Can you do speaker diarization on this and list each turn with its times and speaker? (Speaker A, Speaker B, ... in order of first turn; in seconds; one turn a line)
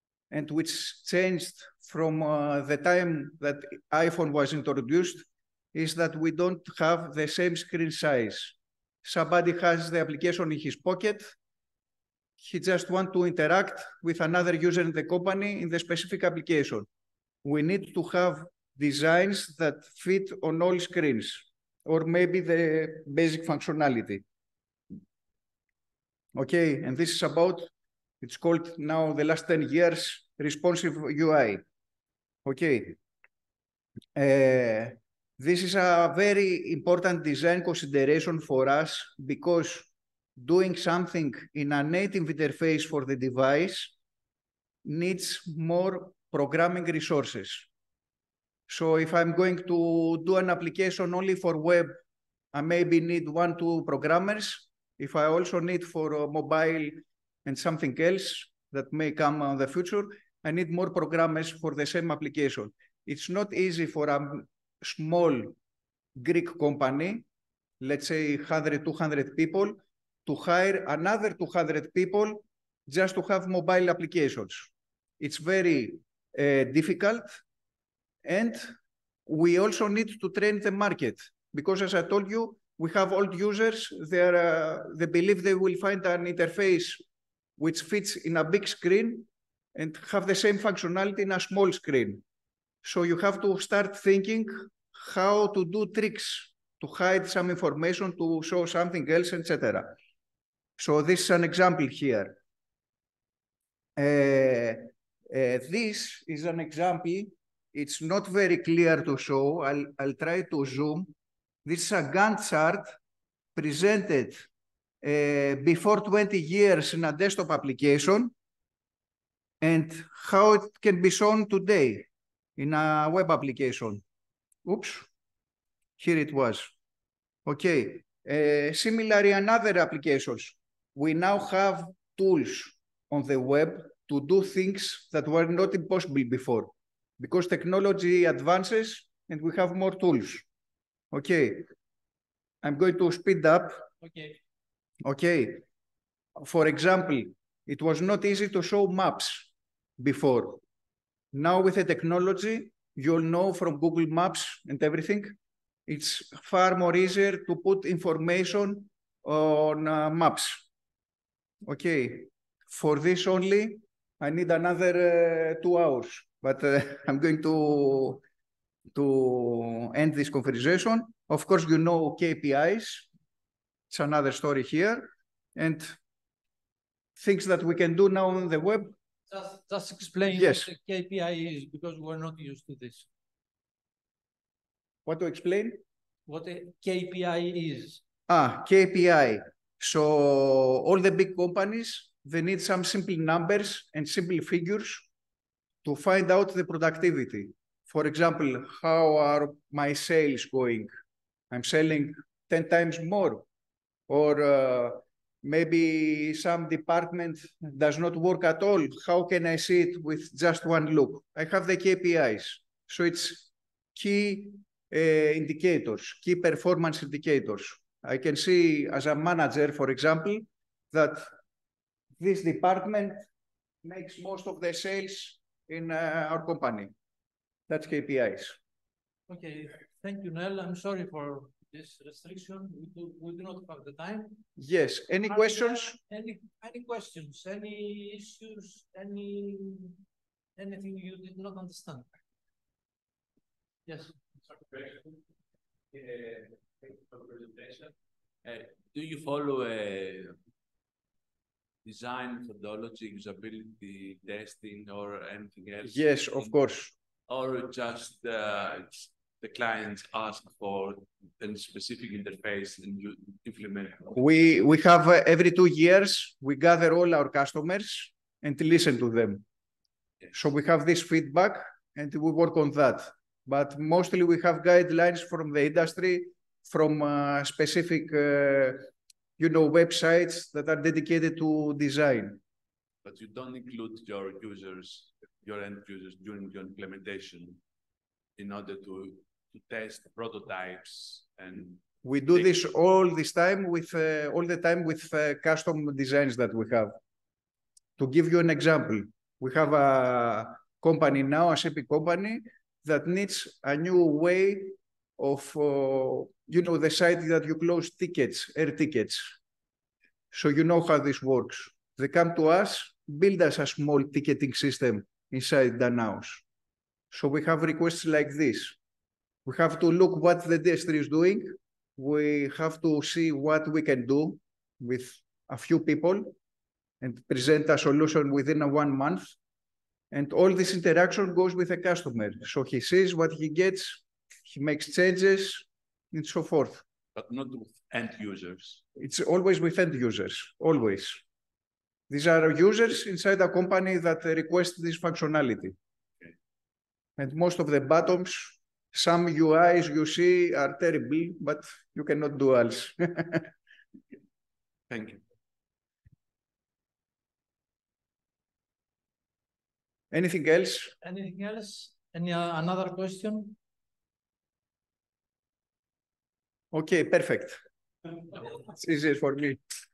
Speaker A: 0.3-11.3
Speaker A: 12.4-16.9
Speaker A: 17.4-24.2
Speaker A: 26.3-31.6
Speaker A: 32.4-33.0
Speaker A: 34.1-44.0
Speaker A: 44.8-47.7
Speaker A: 48.7-51.9
Speaker A: 52.5-65.5
Speaker A: 66.2-67.2
Speaker A: 67.8-77.4
Speaker A: 78.2-78.7
Speaker A: 79.2-87.0
Speaker A: 87.6-92.2
Speaker A: 92.8-99.9
Speaker A: 100.8-102.3
Speaker A: 104.0-111.1
Speaker A: 111.6-113.0
Speaker A: 113.5-114.5
Speaker A: 115.0-118.3
Speaker A: 119.6-124.0
Speaker A: 124.6-125.1
Speaker A: 126.0-126.7
Speaker A: 127.5-140.5
Speaker A: 141.1-141.7
Speaker A: 142.6-143.8
Speaker B: 144.0-144.4
Speaker A: 145.0-145.6
Speaker A: 146.4-150.6
Speaker A: 151.3-160.7
Speaker A: 161.6-168.2
Speaker A: 168.9-173.1
Speaker A: 173.9-176.0
Speaker A: 177.2-178.9
Speaker B: 179.3-183.1
Speaker A: 180.3-180.7
Speaker A: 185.1-185.8
Speaker B: 186.3-188.0
Speaker A: 188.3-195.1
Speaker A: 195.8-200.9
Speaker A: 201.5-203.4
Speaker A: 204.1-221.3
Speaker A: 222.2-223.2
Speaker A: 223.8-226.9
Speaker A: 227.7-228.6
Speaker B: 229.3-234.4
Speaker A: 234.6-236.0
Speaker B: 235.2-240.0
Speaker B: 240.6-242.1
Speaker B: 243.9-244.2
Speaker C: 244.5-245.2
Speaker C: 245.9-250.4
Speaker C: 251.8-256.5
Speaker A: 255.8-256.9
Speaker C: 257.3-264.2
Speaker A: 264.1-269.4
Speaker A: 270.3-282.4
Speaker C: 283.0-287.6
Speaker C: 288.4-292.5
Speaker A: 292.0-296.9
Speaker A: 298.0-309.4
Speaker A: 310.3-316.4
Speaker A: 317.1-318.8
Speaker A: 319.4-326.3
Speaker A: 327.0-329.4
Speaker A: 330.1-336.8
Speaker C: 337.1-338.8
Speaker A: 338.9-341.2
Speaker A: 342.1-345.8
Speaker A: 347.2-353.5
Speaker C: 354.9-355.2
Speaker A: 360.1-360.9
Speaker B: 361.0-363.6
Speaker A: 366.7-367.6
Speaker A: 368.4-369.6